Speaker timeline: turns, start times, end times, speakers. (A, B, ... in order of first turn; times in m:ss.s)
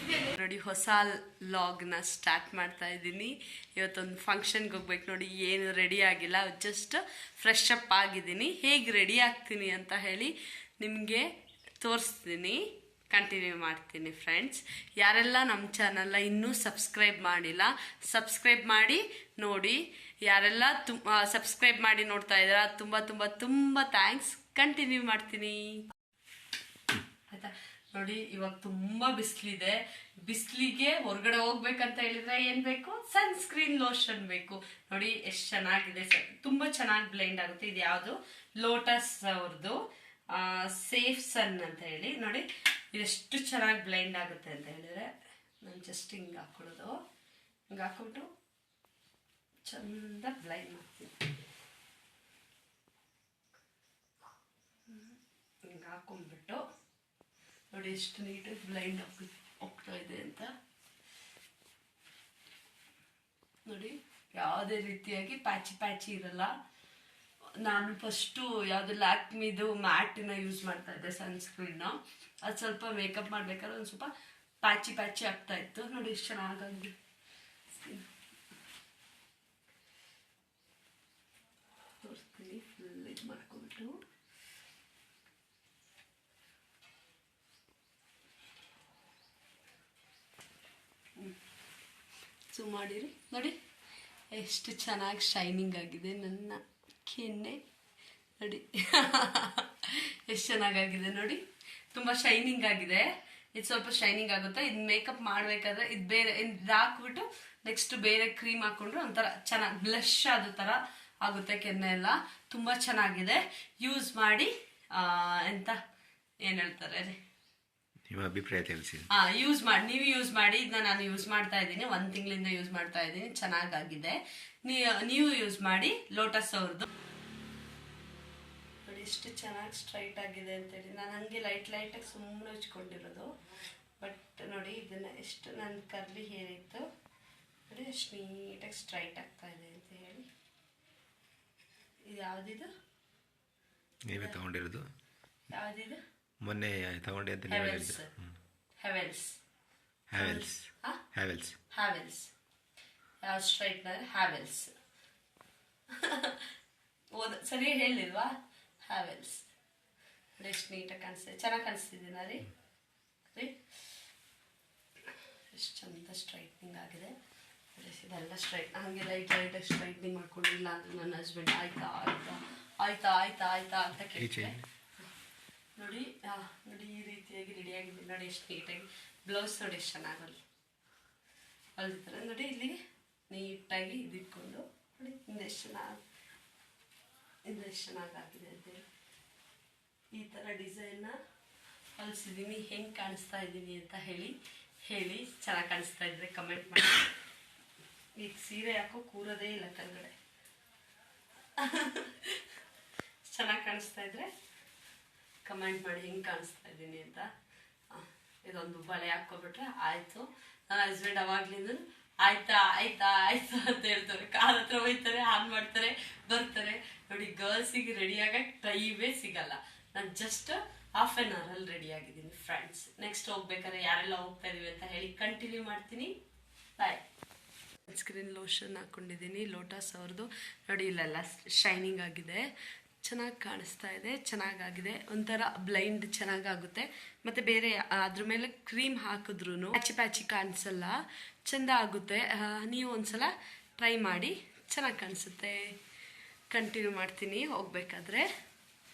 0:00.3-0:11.3 A
0:11.8-0:25.8 A
0:27.3-0:39.8 A
0:40.3-0:47.0 A
0:47.7-0:48.3 A
0:49.6-0:51.3 A
0:54.9-0:56.6 A
0:57.7-1:00.5 A
1:03.6-1:06.5 A
1:07.6-1:14.1 A
1:14.6-1:16.9 A
1:22.0-1:24.0 A
1:32.5-1:33.5 A
1:34.3-1:37.6 A
1:38.4-1:41.4 A
1:41.9-1:55.8 A
1:56.4-1:57.2 A
1:58.1-1:59.1 B
1:59.1-2:06.9 A
2:08.8-2:13.3 A
2:14.0-2:16.8 A
2:17.7-2:20.3 A
2:22.0-2:22.7 A
2:24.1-2:24.8 B
2:24.1-2:24.4 A
2:25.5-2:26.0 A
2:26.4-2:28.0 B
2:27.5-2:28.1 A
2:28.8-2:29.4 A
2:30.1-2:31.6 B
2:30.1-2:31.0 A
2:31.7-2:32.3 A
2:33.2-2:34.7 A
2:35.9-2:36.5 A
2:37.1-2:38.3 A
2:38.8-2:39.5 A
2:40.4-2:42.4 A
2:45.1-2:47.1 A
2:47.7-2:54.6 A
2:54.1-2:54.6 B
2:55.8-3:00.4 A
3:01.8-3:02.8 A
3:03.3-3:06.0 A
3:07.4-3:08.8 A
3:10.1-3:11.2 A
3:12.0-3:17.1 A
3:18.2-3:20.1 A
3:21.6-3:22.4 A
3:23.3-3:24.3 A
3:25.4-3:27.2 A
3:27.9-3:46.1 A
3:46.8-3:47.0 A
3:47.9-3:52.5 A
3:53.0-4:05.7 A
4:06.5-4:08.3 A